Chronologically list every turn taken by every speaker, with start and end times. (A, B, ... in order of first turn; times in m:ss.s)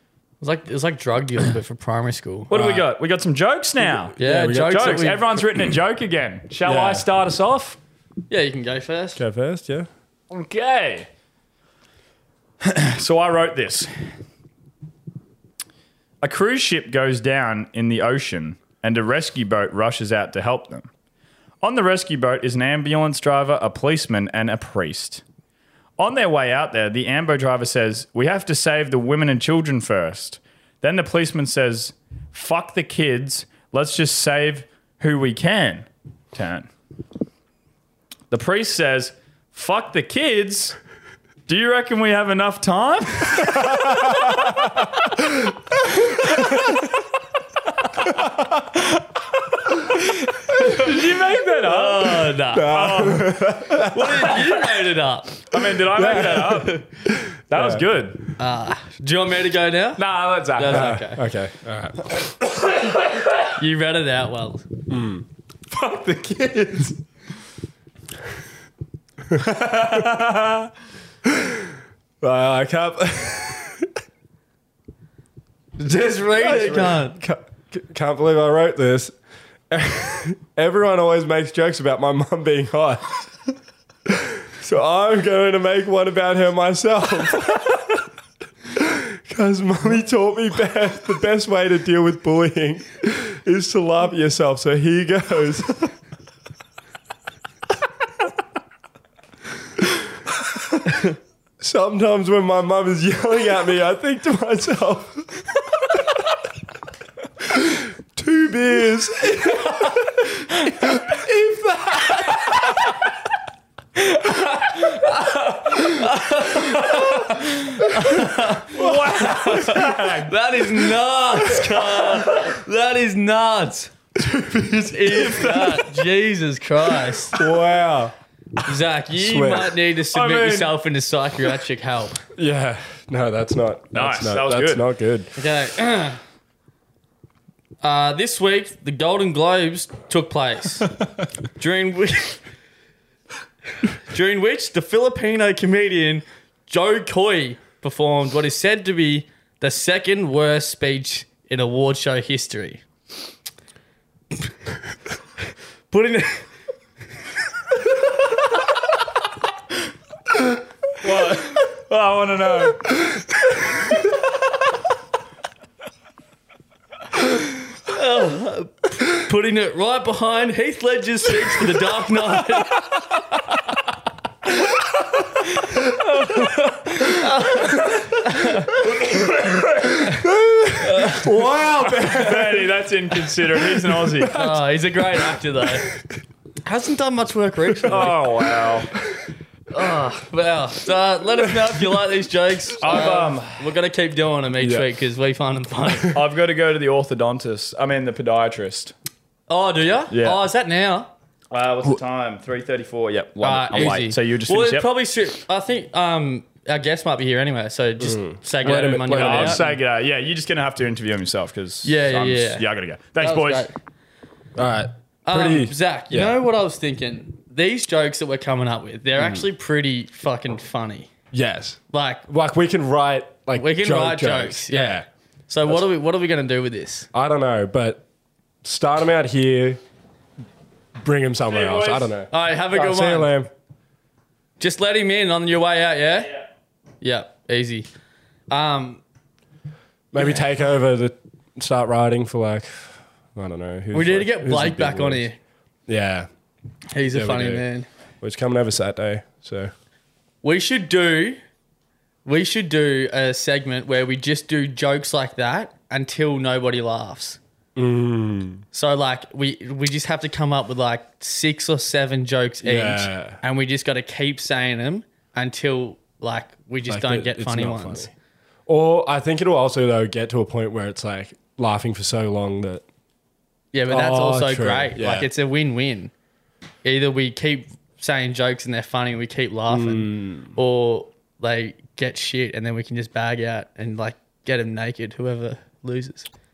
0:00.4-0:02.8 A
0:02.5-0:07.8 B
0:04.2-0:05.0 C
0:04.2-0:05.2 A
0:06.6-0:07.1 C
0:08.3-0:09.2 A
0:09.2-0:09.9 C
0:10.3-0:11.1 B
0:12.6-0:13.9 B
0:16.2-0:20.9 B
0:21.6-0:25.2 B
0:26.0-0:36.7 B
0:38.3-0:40.8 B
0:41.5-0:44.7 B
0:43.7-0:44.6 C
0:46.0-0:46.6 B
0:46.4-0:46.7 C
0:50.1-0:54.4 B
0:51.6-0:52.9 A
0:52.5-0:54.4 C
0:53.8-0:55.4 A
0:55.4-0:56.8 B
0:55.9-0:57.8 C
0:57.5-0:58.2 B
0:58.4-1:00.0 A
1:00.0-1:01.0 B
1:00.6-1:01.2 A
1:00.7-1:02.3 C
1:02.6-1:03.4 B
1:03.6-1:04.6 A
1:04.9-1:05.3 C
1:05.7-1:07.0 B
1:09.3-1:10.7 B
1:11.2-1:11.7 C
1:12.2-1:13.9 C
1:15.8-1:17.2 A
1:16.4-1:19.1 C
1:19.7-1:23.1 C
1:24.1-1:28.0 C
1:28.7-1:35.9 C
1:41.6-1:46.2 C
1:47.4-1:52.9 C
1:54.2-2:03.9 A
1:58.6-2:00.3 B
1:58.8-1:59.7 C
2:04.2-2:06.0 B
2:04.9-2:07.4 A
2:07.3-2:08.1 C
2:08.6-2:12.2 A
2:09.2-2:09.7 C
2:10.1-2:10.8 B
2:12.4-2:15.3 C
2:13.9-2:14.8 B
2:15.4-2:16.2 A
2:17.8-2:20.9 A
2:21.6-2:22.4 A
2:23.8-2:32.8 A
2:35.9-2:36.4 A
2:41.0-2:42.9 B
2:47.9-2:53.0 A
2:55.6-2:58.8 A
2:59.0-2:59.9 B
2:59.8-3:02.7 C
3:00.8-3:01.3 A
3:01.8-3:04.4 B
3:03.3-3:04.6 C
3:04.3-3:05.9 A
3:06.6-3:08.2 A
3:07.9-3:08.9 B
3:07.9-3:09.2 C
3:09.7-3:16.2 A
3:12.8-3:13.6 B
3:14.6-3:14.9 C
3:16.1-3:18.9 B
3:19.5-3:21.1 A
3:20.1-3:20.4 B
3:21.5-3:24.9 B
3:23.4-3:29.6 A
3:28.0-3:29.7 C
3:29.1-3:33.7 B
3:31.8-3:32.6 A
3:33.2-3:33.7 A
3:34.6-3:36.4 C
3:35.3-3:41.1 A
3:39.2-3:39.4 C
3:41.3-3:45.0 C
3:41.9-3:42.2 A
3:43.6-3:47.1 A
3:47.1-3:48.0 C
3:48.6-3:49.8 C
3:51.0-3:53.5 C
3:51.5-3:52.1 B
3:52.3-3:53.3 A
3:54.6-3:56.3 A
3:57.0-3:57.9 A
3:58.5-3:59.0 A
4:00.1-4:05.3 C
4:03.9-4:05.4 A
4:05.9-4:06.3 C
4:06.9-4:07.9 A
4:07.1-4:07.6 C
4:08.2-4:09.7 C
4:10.4-4:11.4 A
4:12.2-4:17.4 A
4:17.8-4:18.6 C
4:18.7-4:28.1 A
4:22.6-4:23.4 C
4:26.9-4:28.1 C
4:28.7-4:32.8 C
4:33.7-4:36.1 A
4:33.9-4:35.3 C
4:36.8-4:46.3 A
4:39.7-4:40.6 C